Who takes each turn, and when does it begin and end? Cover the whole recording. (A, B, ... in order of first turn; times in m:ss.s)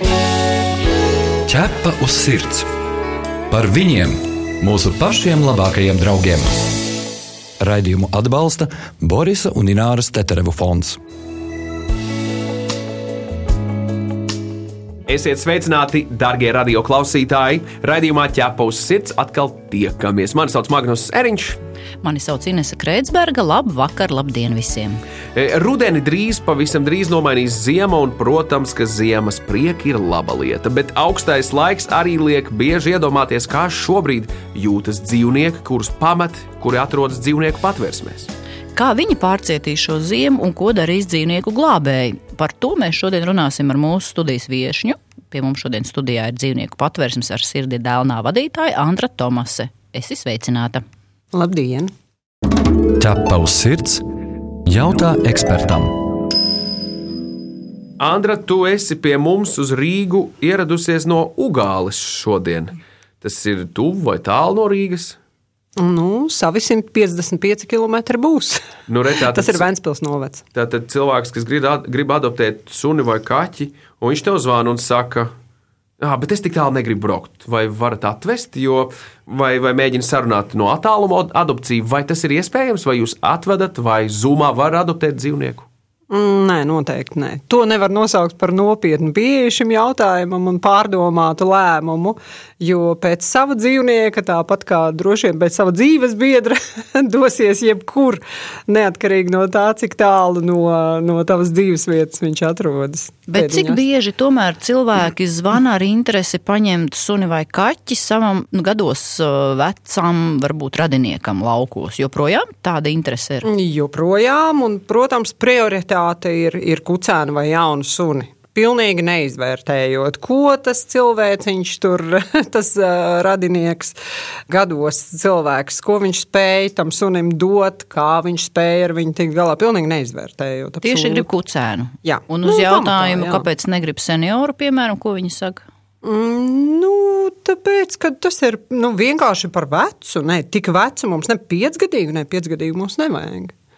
0:01.4-0:02.7 A
0:03.5-0:06.6 A
0:07.6-0:11.0 A
0:15.0-0:21.6 B
0:22.0-0:25.0 C
0:25.3-0:38.3 B
0:38.7-0:50.8 C
0:51.3-0:51.9 D
0:52.9-0:54.0 A
0:54.6-0:56.0 A
0:58.0-1:05.2 B
1:05.8-1:08.7 D
1:08.9-1:09.6 B
1:09.3-1:10.4 D
1:10.5-1:15.3 B
1:16.0-1:25.7 B
1:26.1-1:43.8 D
1:43.3-1:53.5 C
1:53.4-2:04.0 D
2:04.5-2:11.2 D
2:10.8-2:15.6 C
2:12.0-2:13.4 D
2:16.0-2:23.5 D